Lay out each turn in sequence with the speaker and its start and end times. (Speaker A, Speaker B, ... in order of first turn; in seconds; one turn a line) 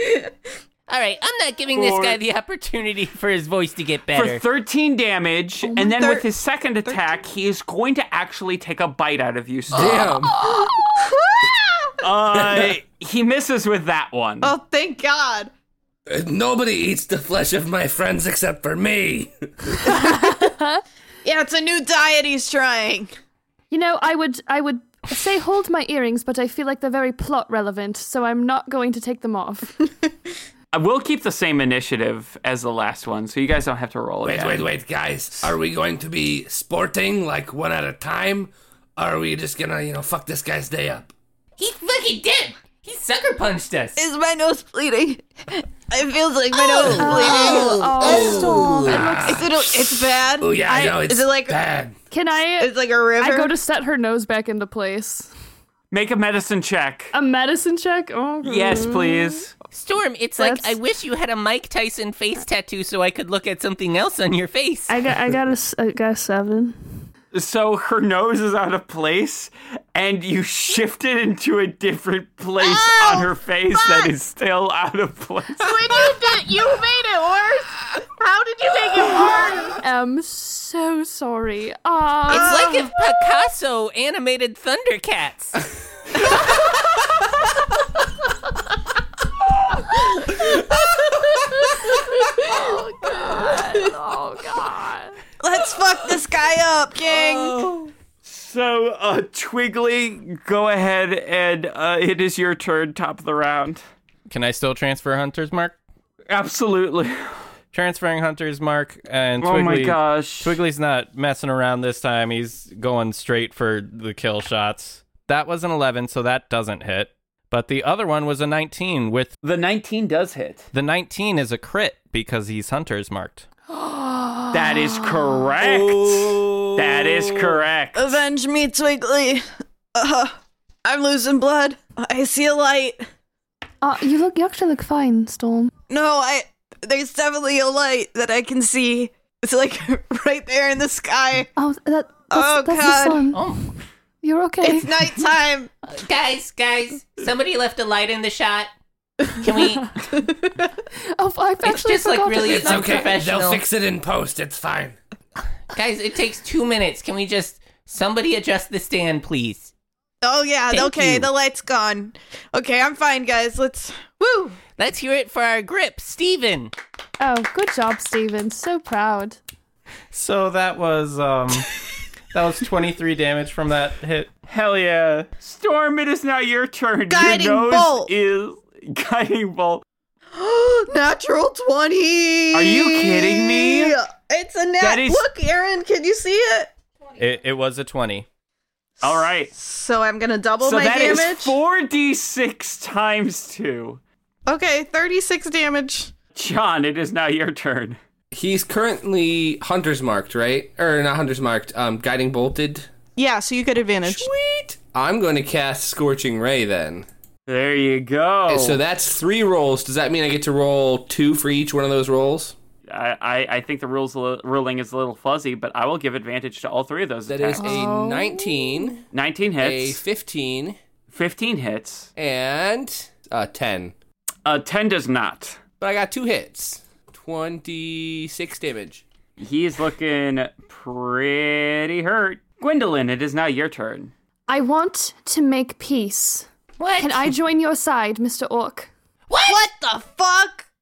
Speaker A: 0.9-4.4
Speaker B: 1.7-2.2
Speaker B: 4.1-10.3
Speaker C: 5.6-6.2
Speaker D: 9.7-10.3
Speaker C: 10.0-11.9
Speaker B: 12.0-14.6
Speaker D: 12.4-12.7
Speaker C: 14.4-15.5
Speaker D: 16.1-19.5
Speaker E: 19.8-20.8
Speaker C: 21.2-23.1
Speaker E: 23.7-29.8
Speaker B: 30.7-34.7
Speaker D: 34.2-41.1
Speaker A: 41.6-44.0
Speaker C: 44.0-51.6
Speaker A: 46.7-48.1
Speaker E: 46.9-49.5
Speaker D: 48.0-51.9
Speaker E: 52.1-55.3
Speaker C: 52.6-53.5
Speaker B: 55.9-57.1
Speaker E: 57.1-59.5
Speaker B: 58.4-59.5
Speaker A: 59.7-65.0
Speaker E: 60.4-60.8
Speaker E: 64.9-67.0
Speaker B: 67.3-75.8
Speaker C: 72.6-74.1
Speaker C: 75.6-79.8
Speaker E: 79.8-82.9
Speaker A: 82.3-85.6
Speaker C: 82.3-82.8
Speaker E: 91.9-95.2
Speaker C: 95.4-97.8
Speaker B: 97.1-103.8
Speaker F: 104.3-105.8
Speaker B: 106.3-107.1
Speaker F: 107.7-119.3
Speaker B: 109.4-110.6
Speaker B: 119.4-120.7
Speaker F: 120.7-123.5
Speaker E: 123.7-125.4
Speaker B: 124.5-128.2
Speaker D: 125.6-126.7
Speaker C: 127.9-129.4
Speaker C: 129.9-133.0
Speaker E: 133.8-135.7
Speaker C: 135.9-141.5
Speaker E: 141.6-143.5
Speaker C: 142.3-143.3
Speaker A: 143.3-143.7
Speaker E: 144.2-145.1
Speaker C: 144.6-145.7
Speaker A: 145.9-148.7
Speaker A: 149.3-150.0
Speaker C: 150.2-150.5
Speaker E: 151.2-153.2
Speaker A: 151.6-153.6
Speaker D: 152.5-154.9
Speaker A: 155.7-159.7
Speaker C: 160.2-164.6
Speaker A: 160.7-161.3
Speaker A: 164.8-166.7
Speaker E: 167.2-169.4
Speaker F: 170.1-171.8
Speaker F: 172.3-174.3
Speaker B: 174.5-179.8
Speaker C: 177.1-178.1
Speaker C: 180.3-186.7
Speaker B: 182.5-184.0
Speaker B: 184.8-185.3
Speaker F: 187.2-188.2
Speaker B: 189.0-189.5
Speaker C: 189.0-191.6
Speaker B: 190.6-194.0
Speaker C: 194.5-196.1
Speaker B: 196.3-198.0
Speaker D: 198.3-202.9
Speaker C: 203.2-204.3
Speaker D: 204.0-207.1
Speaker B: 207.5-208.8
Speaker D: 208.5-212.6
Speaker B: 212.9-217.8
Speaker D: 217.3-219.0
Speaker E: 217.6-218.8
Speaker B: 219.1-220.0
Speaker D: 219.6-220.8
Speaker B: 221.1-222.1
Speaker D: 222.2-223.9
Speaker B: 224.4-225.6
Speaker D: 225.8-229.0
Speaker B: 229.4-234.1
Speaker E: 234.5-238.9
Speaker A: 236.8-237.3
Speaker A: 239.3-239.6
Speaker C: 239.4-240.7